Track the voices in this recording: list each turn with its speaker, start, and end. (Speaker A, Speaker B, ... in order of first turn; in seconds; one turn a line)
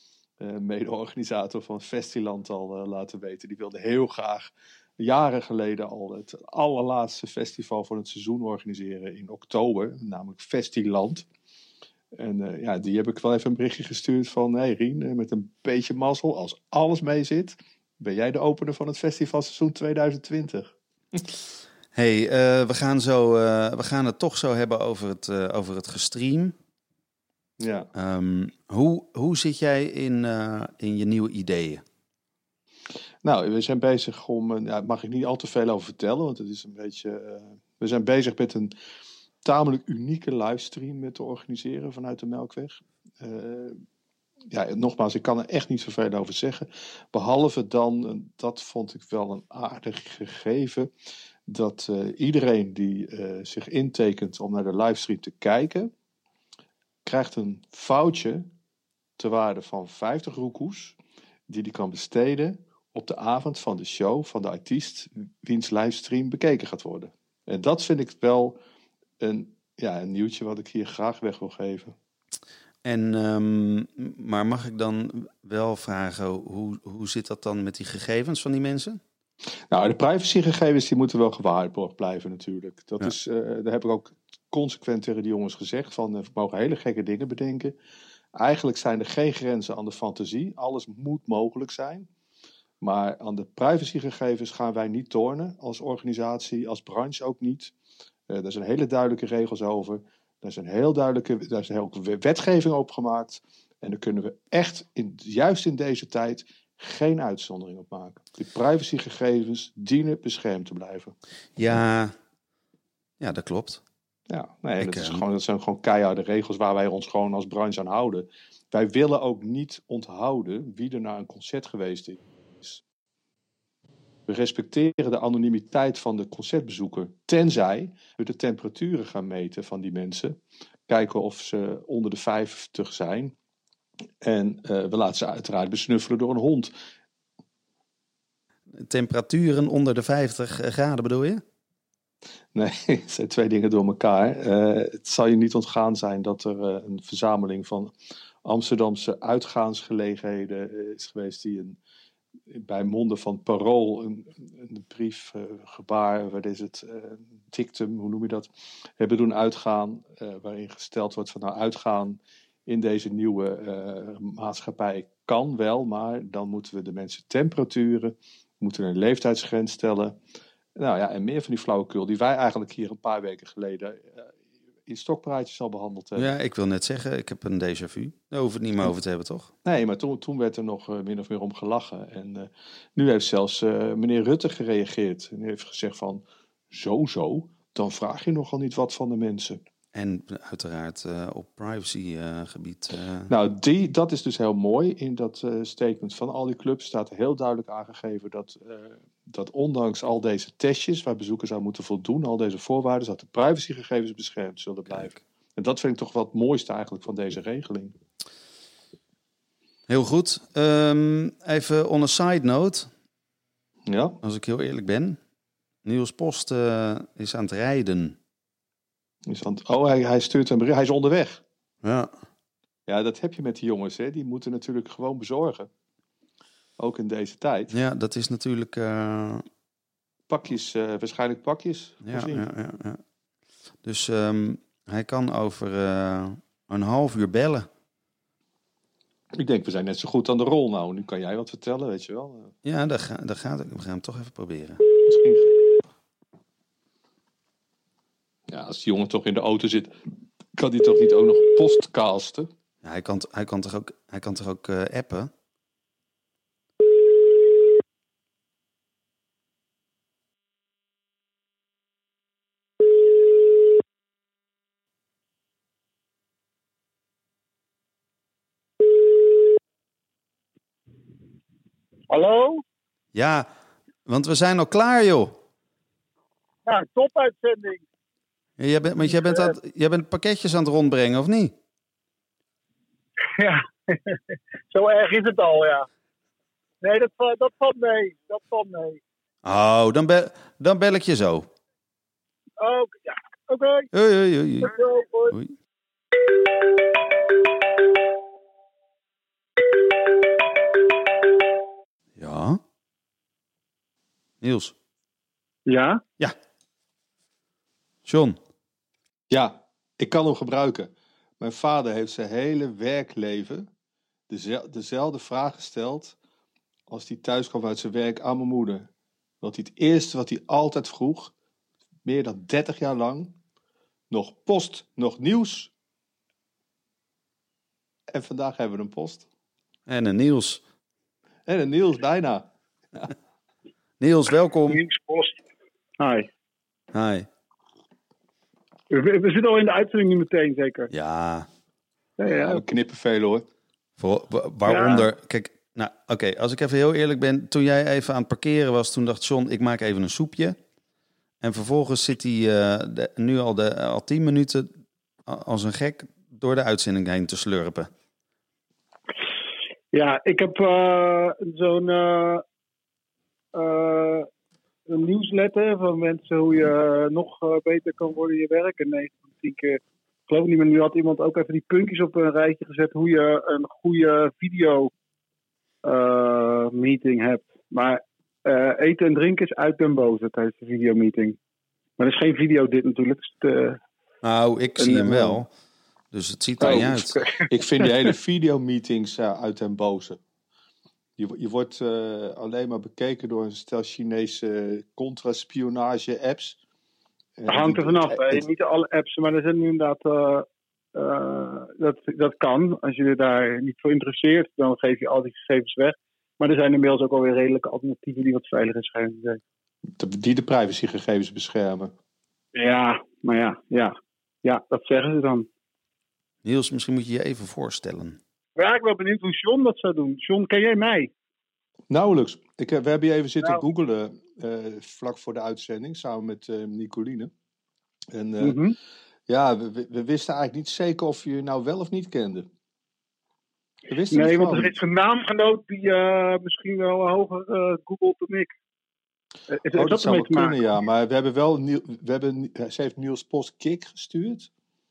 Speaker A: 0.4-11.3
Speaker A: 12.1-20.8
Speaker B: 21.9-26.6
Speaker A: 27.6-27.9
Speaker B: 27.9-31.8
Speaker A: 33.2-38.7
Speaker A: 39.4-43.8
Speaker A: 44.5-50.9
Speaker A: 51.5-55.9
Speaker A: 57.0-58.5
Speaker A: 59.2-61.0
Speaker A: 61.5-68.6
Speaker A: 69.2-72.0
Speaker B: 72.8-79.0
Speaker A: 79.7-87.8
Speaker A: 88.3-92.1
Speaker A: 92.8-97.7
Speaker A: 98.3-111.2
Speaker B: 111.6-112.1
Speaker B: 113.2-113.8
Speaker A: 114.3-122.8
Speaker B: 114.8-115.2
Speaker A: 124.3-133.3
Speaker A: 134.2-136.7
Speaker B: 138.7-141.4
Speaker A: 142.5-147.9
Speaker A: 148.4-151.8
Speaker A: 152.5-170.2
Speaker A: 170.8-176.3
Speaker B: 176.2-179.5
Speaker A: 179.6-189.6
Speaker B: 189.9-193.3
Speaker A: 193.3-208.0
Speaker B: 204.9-205.2
Speaker B: 209.9-212.9
Speaker A: 213.9-214.2
Speaker B: 214.2-215.2
Speaker B: 215.8-218.2
Speaker A: 219.3-221.4
Speaker B: 221.8-222.1
Speaker A: 222.9-225.7
Speaker A: 226.8-227.8
Speaker B: 227.7-229.5
Speaker A: 230.3-232.5
Speaker B: 232.0-233.0
Speaker B: 233.8-237.7
Speaker A: 239.3-242.5
Speaker B: 242.6-244.8
Speaker A: 245.1-245.5
Speaker A: 248.5-249.9
Speaker A: 250.6-252.5
Speaker B: 252.8-255.3
Speaker C: 272.1-272.6
Speaker B: 273.1-273.5
Speaker B: 274.1-275.4
Speaker C: 276.7-277.8
Speaker B: 278.6-281.5
Speaker C: 279.3-279.5
Speaker C: 283.3-285.9
Speaker C: 286.8-289.0
Speaker B: 289.4-291.5
Speaker C: 292.6-293.9
Speaker B: 293.9-294.8
Speaker C: 294.6-295.3
Speaker B: 302.2-302.6
Speaker B: 304.4-304.7
Speaker C: 305.7-306.0
Speaker B: 308.1-308.4
Speaker A: 309.3-313.7
Speaker A: 314.3-316.2
Speaker A: 316.9-318.9
Speaker A: 319.4-321.3
Speaker A: 322.0-323.4
Speaker A: 324.1-325.7
Speaker A: 328.1-329.3
Speaker B: 329.9-330.6
Speaker A: 331.5-333.1
Speaker B: 334.0-334.8
Speaker C: 334.7-335.4
Speaker C: 336.0-336.3
Speaker B: 336.9-337.3
Speaker C: 338.9-340.9
Speaker B: 340.9-341.5
Speaker C: 342.2-342.6
Speaker A: 342.2-343.5
Speaker B: 344.0-350.6
Speaker C: 344.7-345.1
Speaker B: 351.4-354.7
Speaker B: 355.3-357.9
Speaker C: 359.9-362.4
Speaker C: 363.5-364.3
Speaker C: 364.9-374.9
Speaker C: 375.8-381.4
Speaker C: 382.0-383.8
Speaker B: 384.2-385.5
Speaker C: 384.8-385.4
Speaker B: 386.1-387.1
Speaker C: 386.6-387.5
Speaker A: 386.6-390.2
Speaker A: 391.2-396.6
Speaker A: 397.4-398.4
Speaker C: 397.5-409.4
Speaker A: 409.9-411.9
Speaker C: 412.5-415.5
Speaker B: 416.4-418.2
Speaker C: 418.6-421.1
Speaker A: 421.9-427.3
Speaker A: 428.1-428.6
Speaker C: 428.4-428.8
Speaker A: 429.3-432.5
Speaker A: 433.9-434.8
Speaker C: 434.1-438.5
Speaker C: 439.5-440.8
Speaker A: 439.7-444.5